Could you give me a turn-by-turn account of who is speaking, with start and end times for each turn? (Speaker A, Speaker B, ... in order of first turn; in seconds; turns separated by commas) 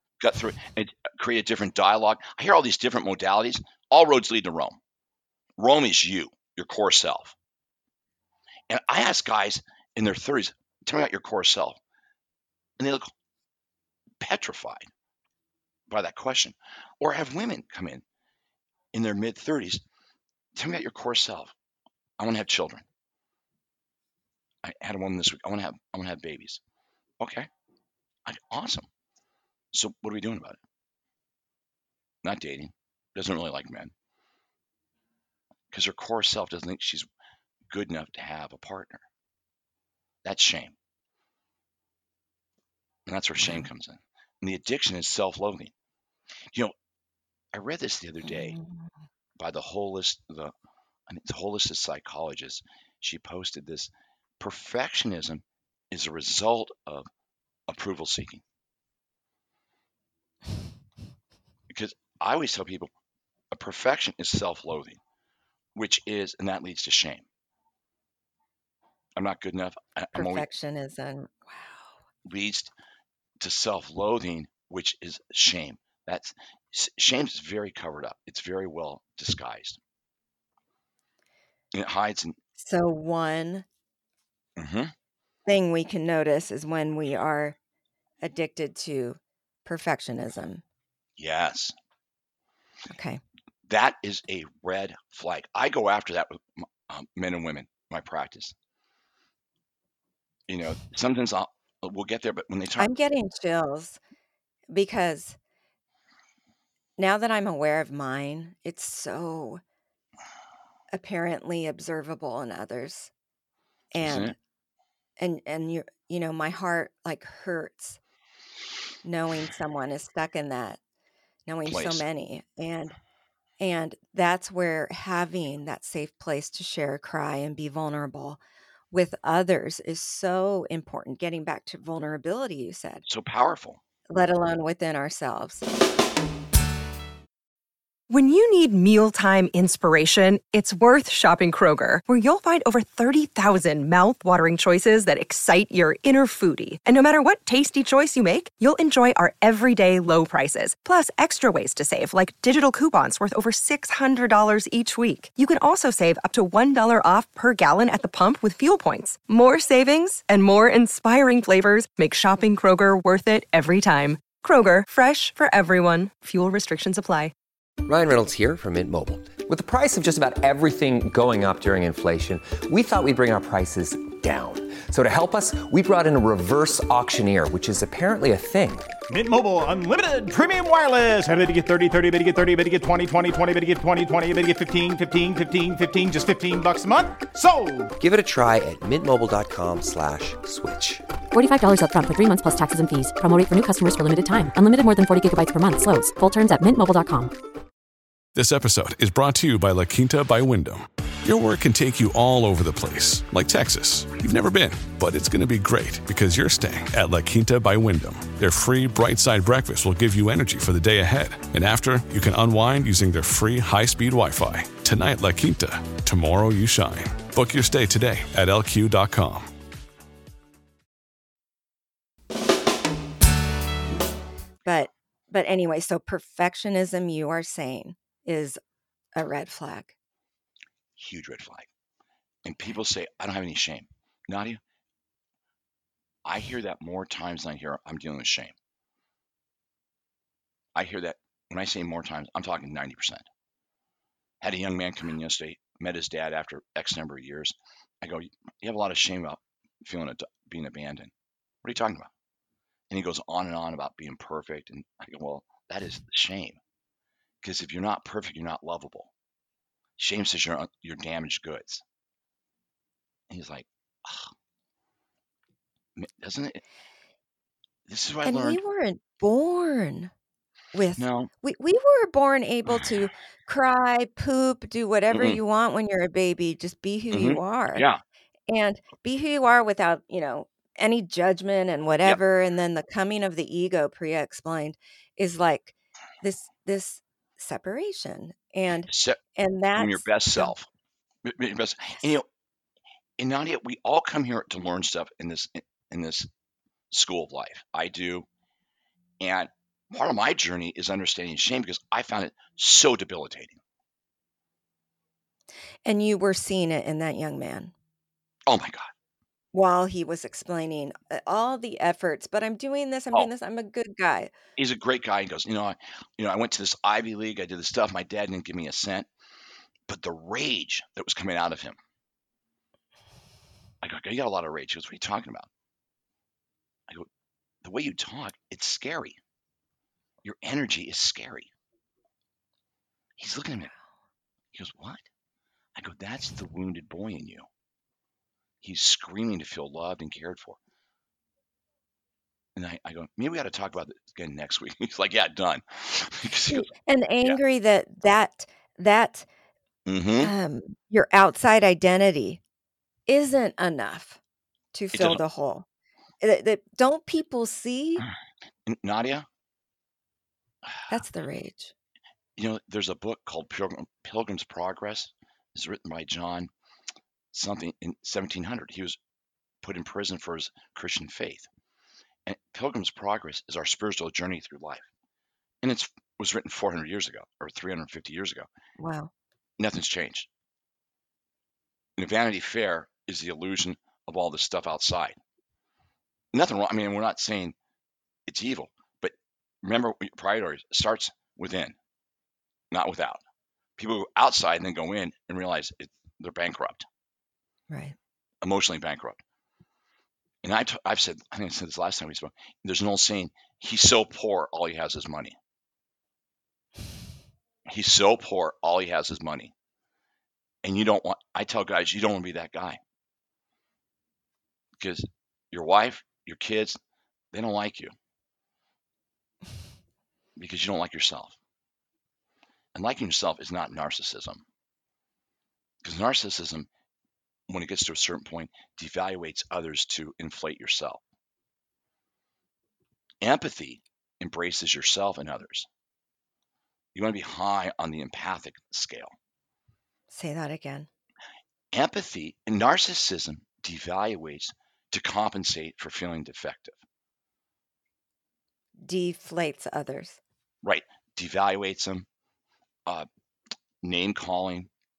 Speaker A: 0.2-4.8, Speaker A: 5.6-7.3, Speaker A: 8.7-11.8, Speaker A: 12.8-13.1, Speaker A: 14.2-14.9, Speaker A: 15.9-18.0, Speaker A: 18.9-19.8, Speaker A: 20.5-21.5, Speaker A: 22.2-22.8, Speaker A: 24.6-26.6, Speaker A: 27.2-27.5, Speaker A: 28.2-28.9, Speaker A: 29.7-30.6, Speaker A: 32.2-33.9, Speaker A: 35.7-37.1, Speaker A: 37.7-39.0, Speaker A: 40.2-40.8, Speaker A: 43.0-45.7, Speaker B: 43.4-43.7, Speaker A: 47.5-48.6, Speaker B: 48.2-48.9, Speaker A: 49.4-50.5, Speaker A: 51.1-57.1, Speaker A: 57.7-58.4, Speaker A: 61.7-62.9, Speaker A: 63.5-65.0, Speaker A: 65.7-67.2, Speaker A: 69.2-70.5, Speaker B: 70.1-71.9, Speaker A: 72.2-72.7, Speaker A: 73.4-79.8, Speaker A: 81.7-82.4, Speaker B: 82.6-83.7, Speaker A: 84.6-84.9, Speaker B: 85.5-87.6, Speaker B: 88.2-90.6, Speaker A: 91.2-91.7, Speaker B: 92.9-93.2, Speaker A: 93.7-98.5, Speaker A: 100.5-102.9, Speaker B: 102.8-104.0, Speaker B: 104.7-105.4, Speaker B: 107.0-109.6, Speaker B: 110.9-113.1, Speaker B: 113.9-114.3, Speaker A: 114.0-114.3, Speaker B: 115.2-118.0, Speaker B: 119.0-120.8, Speaker B: 121.5-123.0, Speaker A: 121.6-122.0, Speaker B: 123.6-128.4, Speaker B: 128.9-133.0, Speaker A: 133.1-133.8, Speaker B: 134.1-135.7, Speaker C: 138.1-167.3, Speaker D: 167.8-178.9, Speaker E: 179.1-187.9, Speaker D: 188.0-191.0, Speaker F: 191.3-197.3, Speaker G: 198.3-219.5, Speaker B: 224.6-228.6, Speaker B: 229.2-229.9, Speaker A: 231.0-231.7, Speaker A: 232.4-234.6, Speaker A: 236.2-238.5, Speaker A: 240.7-243.2, Speaker A: 244.4-251.1, Speaker A: 251.6-252.1, Speaker A: 252.9-256.6, Speaker A: 257.4-259.1, Speaker A: 260.0-261.8, Speaker A: 263.3-264.3, Speaker A: 265.9-266.6, Speaker A: 267.9-268.6, Speaker B: 268.2-270.1, Speaker B: 270.7-277.9, Speaker A: 271.0-271.3, Speaker A: 275.1-275.4, Speaker A: 277.1-278.0, Speaker B: 278.5-290.5, Speaker A: 288.9-289.2, Speaker A: 289.7-290.7, Speaker A: 291.2-292.2, Speaker A: 293.2-296.3, Speaker A: 296.9-298.3, Speaker A: 299.2-303.6, Speaker B: 305.8-307.7, Speaker A: 308.5-308.9, Speaker B: 309.5-314.3, Speaker A: 314.6-319.1, Speaker A: 319.9-321.8, Speaker A: 323.8-325.5, Speaker A: 327.6-329.2, Speaker A: 330.2-331.5, Speaker A: 333.2-333.7, Speaker A: 334.5-335.0, Speaker A: 335.8-337.5, Speaker A: 338.6-340.6, Speaker A: 342.6-346.7, Speaker B: 346.5-349.3, Speaker A: 349.9-350.3, Speaker B: 350.2-352.4, Speaker B: 353.1-354.2, Speaker B: 354.7-355.6, Speaker A: 354.9-355.2, Speaker B: 356.2-358.1, Speaker A: 358.6-359.3, Speaker B: 360.9-361.7, Speaker A: 362.4-366.5, Speaker A: 367.3-369.0, Speaker A: 369.6-371.5, Speaker A: 372.2-374.9, Speaker A: 375.6-378.5, Speaker B: 378.8-379.1, Speaker A: 379.6-380.3, Speaker A: 382.0-385.2, Speaker A: 386.3-387.5, Speaker A: 388.3-391.8, Speaker A: 392.7-393.2, Speaker A: 393.8-396.9, Speaker B: 397.7-397.9, Speaker A: 398.4-399.2, Speaker A: 400.4-405.4, Speaker A: 407.6-409.5, Speaker A: 410.6-412.8, Speaker A: 414.8-416.8, Speaker A: 417.3-417.9, Speaker A: 420.4-421.4, Speaker A: 422.7-424.4, Speaker A: 425.8-426.7, Speaker A: 427.5-431.0, Speaker A: 433.2-435.7, Speaker A: 436.9-439.1, Speaker B: 440.1-440.9, Speaker A: 441.7-446.8, Speaker B: 448.8-450.2, Speaker A: 450.6-452.1, Speaker A: 453.8-454.7